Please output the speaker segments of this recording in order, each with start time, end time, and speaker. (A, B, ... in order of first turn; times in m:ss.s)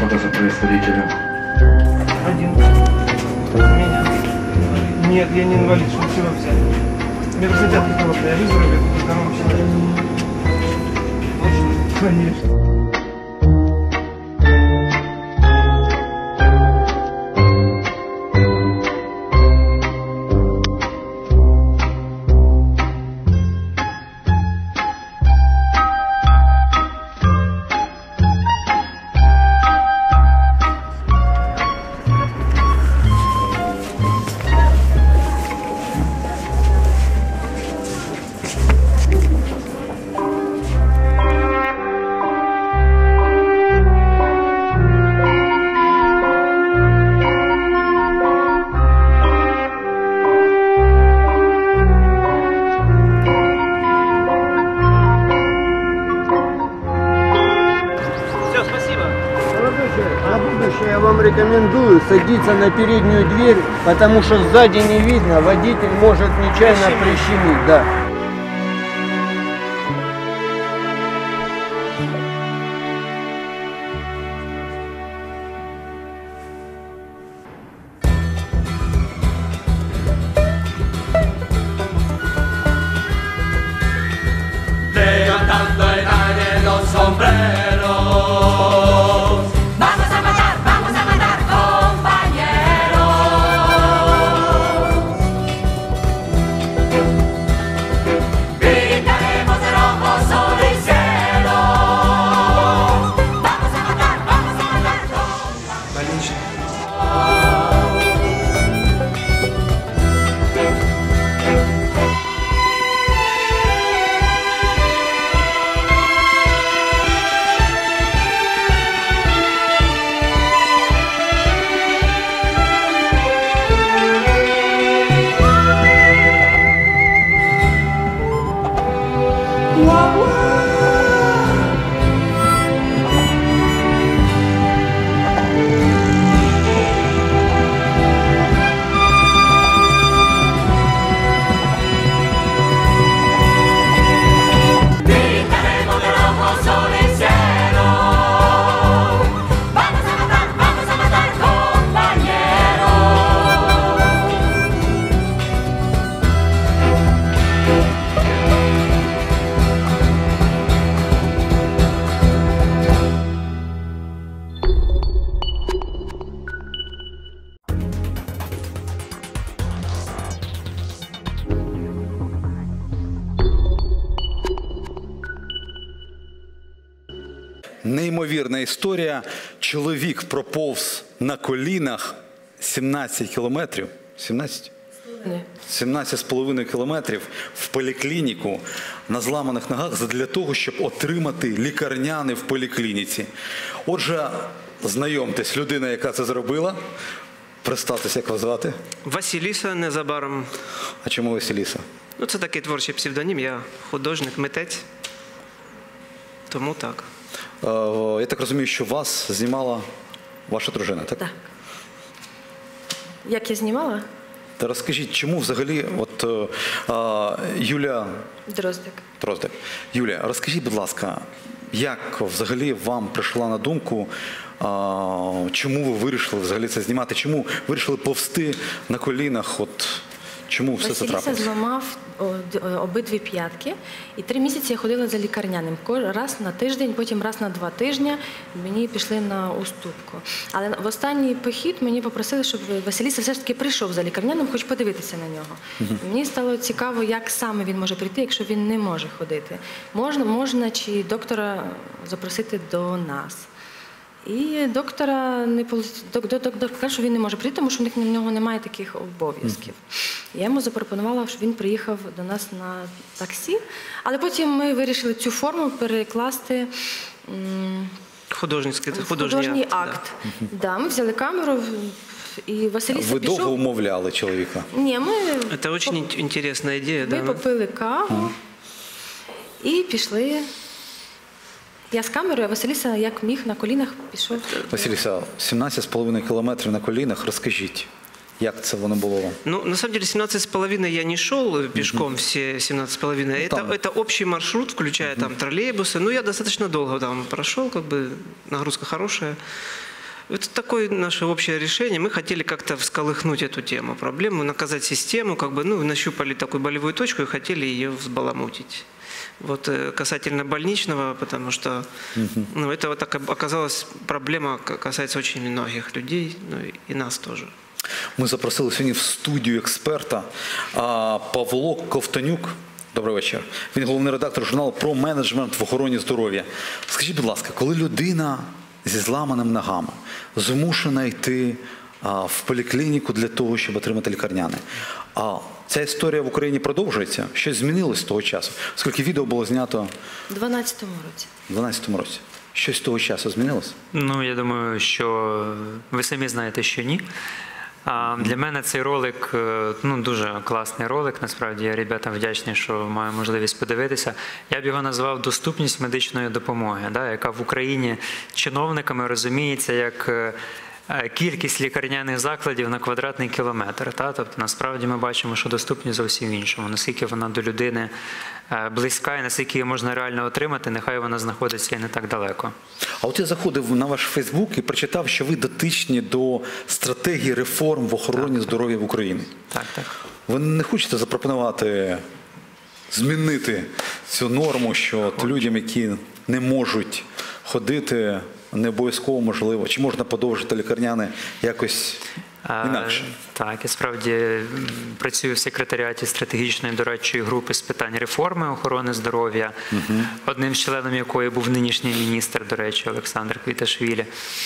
0:02.2-0:02.6 A
0:03.5-0:06.6 A
0:07.3-0:09.7 A
0:11.4-0:12.3 A
0:59.5-1:07.9 B
1:06.6-1:07.2 A
1:25.4-1:25.7 C
1:26.5-1:27.2 C
1:40.4-1:41.2 C
2:25.6-2:27.6 C
2:57.8-3:04.7 D
3:05.6-3:13.3 D
3:13.8-3:16.8 D
3:17.6-3:18.8 D
3:19.0-3:20.5 A
3:21.0-3:21.8 D
3:22.2-3:24.8 A
3:26.5-3:27.1 A
3:27.6-3:29.8 D
3:30.5-3:31.2 D
3:33.2-3:34.0 E
3:34.6-3:38.2 D
3:38.5-3:39.0 E
3:39.2-3:51.5 D
3:50.8-4:13.5 E
4:14.2-4:19.8 E
4:20.3-4:26.7 E
4:27.2-4:27.9 E
4:28.3-4:30.0 A
4:28.9-4:33.6 E
4:32.9-4:34.7 D
4:34.7-4:36.0 E
4:35.5-4:37.4 A
4:37.0-4:38.3 E
4:39.6-4:40.4 E
4:41.9-4:44.9 E
4:44.7-4:49.4 D
4:49.4-4:59.4 A
4:51.8-4:52.0 D
4:53.4-4:53.8 D
5:00.3-5:08.8 A
5:09.4-5:11.8 A
5:12.2-5:12.5 D
5:12.5-5:17.5 A
5:18.2-5:34.6 D
5:35.2-5:39.9 D
5:40.3-5:41.3 E
5:41.5-5:43.7 D
5:43.9-5:47.0 C
5:47.8-6:00.4 C
6:00.9-6:07.9 C
6:08.5-6:12.5 C
6:13.0-6:19.3 D
6:19.5-6:19.9 C
6:20.3-6:22.0 D
6:22.9-6:32.0 D
6:25.2-6:25.5 C
6:32.4-6:39.5 C
6:32.6-6:33.1 D
6:39.7-6:40.1 D
6:40.1-6:44.1 C